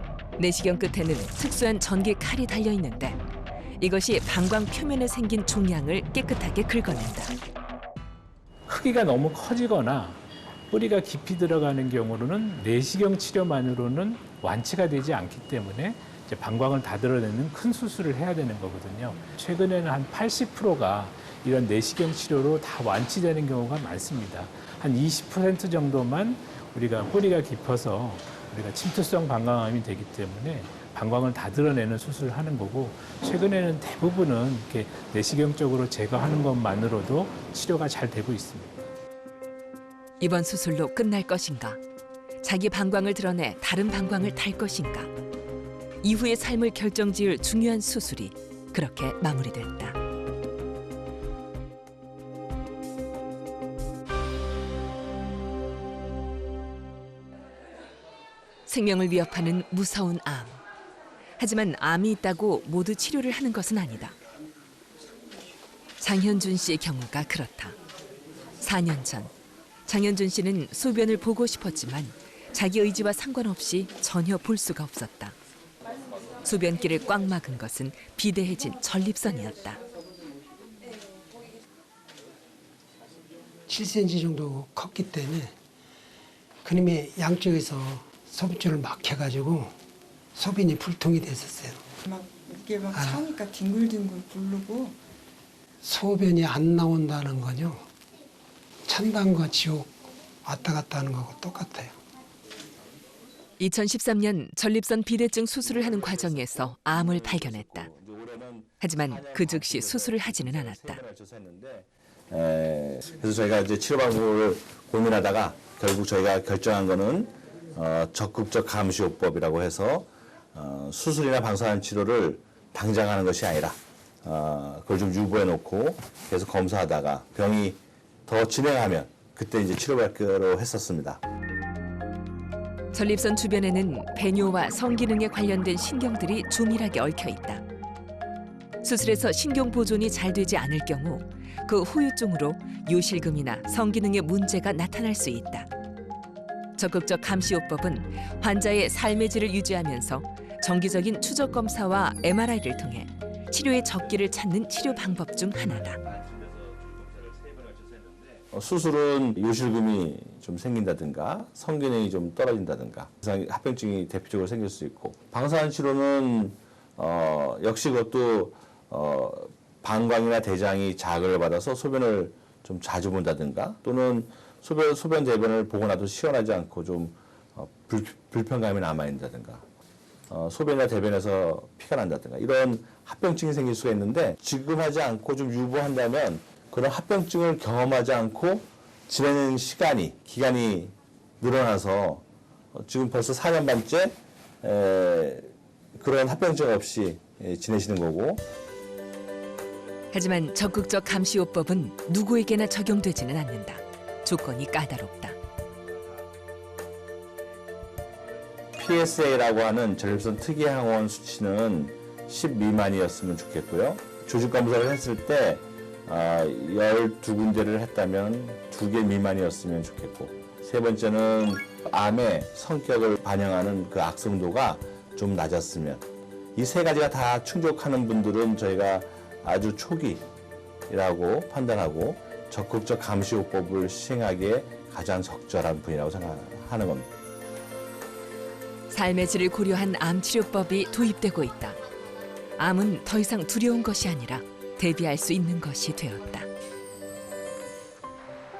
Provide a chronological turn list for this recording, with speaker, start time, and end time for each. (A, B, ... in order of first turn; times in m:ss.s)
0:00.4-0:03.2 A
0:03.8-0:07.3 A
0:08.7-0:38.9 B
0:40.2-0:41.8 A
0:42.4-0:45.1 A
0:46.0-0:50.0 A
0:58.7-1:00.6 A
1:01.4-1:04.2 A
1:06.0-1:07.8 A
1:08.6-1:09.3 A
1:09.9-1:15.4 A
1:16.4-1:19.8 A
1:23.7-1:25.5 C
1:26.6-1:29.7 C
1:30.3-1:31.8 C
1:32.0-1:34.9 D
1:32.9-1:33.3 C
1:35.8-1:37.8 C
1:38.8-1:39.9 C
1:40.4-1:42.0 C
1:43.6-1:47.9 A
1:45.6-2:11.2 E
1:48.8-1:51.0 A
2:12.9-2:17.6 A
2:18.8-2:25.7 A
2:26.8-2:36.0 A
2:36.0-2:38.4 D
2:38.5-2:59.6 E
3:00.3-3:18.4 E
3:20.1-3:25.4 A
3:28.8-3:50.2 E
3:50.9-3:57.1 E
3:58.9-4:01.8 A
4:02.6-4:06.5 A